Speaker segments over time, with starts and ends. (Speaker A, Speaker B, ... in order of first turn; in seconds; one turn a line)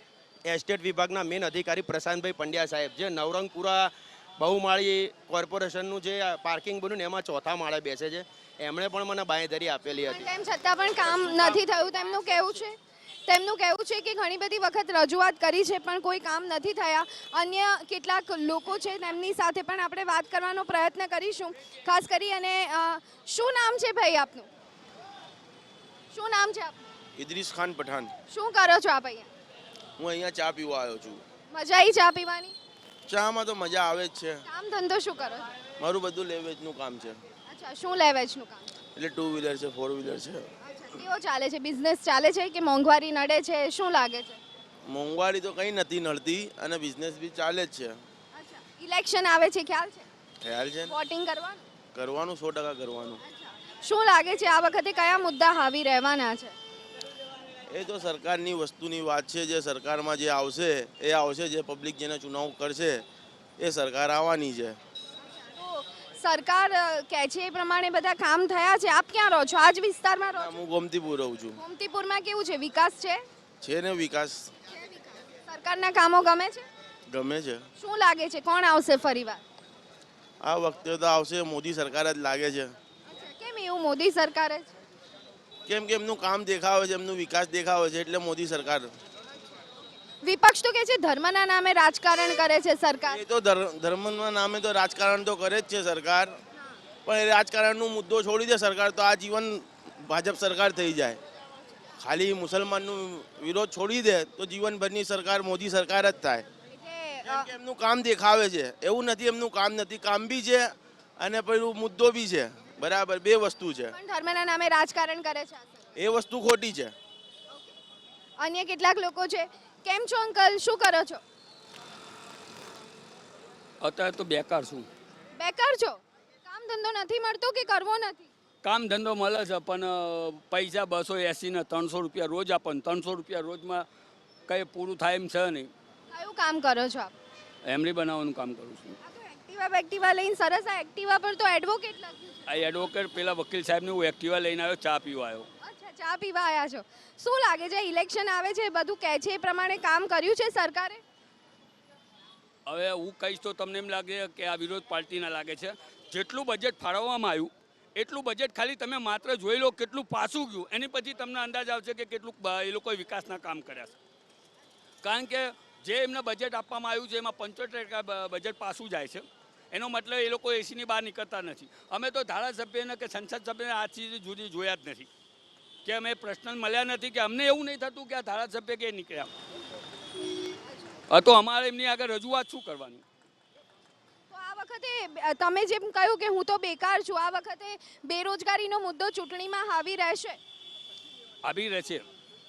Speaker A: 0.5-10.2
Speaker B: 9.9-24.5
Speaker A: 11.2-11.7
Speaker B: 26.1-26.8
Speaker C: 27.2-28.1
Speaker B: 28.3-29.3
Speaker C: 30.0-31.2
Speaker B: 31.5-32.5
Speaker C: 33.1-34.4
Speaker B: 34.5-35.5
Speaker C: 35.8-37.2
Speaker B: 37.5-38.8
Speaker C: 39.0-40.5
Speaker B: 40.6-44.4
Speaker C: 44.9-48.0
Speaker B: 48.3-50.1
Speaker C: 50.4-50.9
Speaker B: 50.9-51.6
Speaker C: 51.9-53.2
Speaker B: 53.2-56.5
Speaker C: 57.7-63.0
Speaker C: 63.6-64.8
Speaker B: 65.4-70.6
Speaker C: 70.3-71.6
Speaker B: 71.6-73.2
Speaker C: 73.6-74.5
Speaker B: 74.7-76.7
Speaker C: 77.1-77.6
Speaker B: 77.8-79.4
Speaker C: 80.4-82.7
Speaker B: 83.1-84.7
Speaker C: 85.7-88.9
Speaker B: 90.1-93.2
Speaker C: 93.1-96.3
Speaker C: 97.0-101.2
Speaker C: 102.0-106.4
Speaker B: 106.7-107.5
Speaker C: 107.2-113.9
Speaker B: 113.9-115.8
Speaker C: 116.0-116.9
Speaker B: 118.4-121.2
Speaker D: 123.8-124.8
Speaker B: 125.4-128.3
Speaker D: 128.6-133.8
Speaker D: 134.5-135.7
Speaker B: 136.1-137.1
Speaker D: 137.6-139.0
Speaker B: 139.0-142.4
Speaker D: 142.5-145.5
Speaker B: 145.6-151.0
Speaker D: 152.7-163.9
Speaker D: 165.0-175.1
Speaker D: 175.8-179.3
Speaker D: 181.1-183.0
Speaker B: 184.3-190.4
Speaker D: 191.4-192.0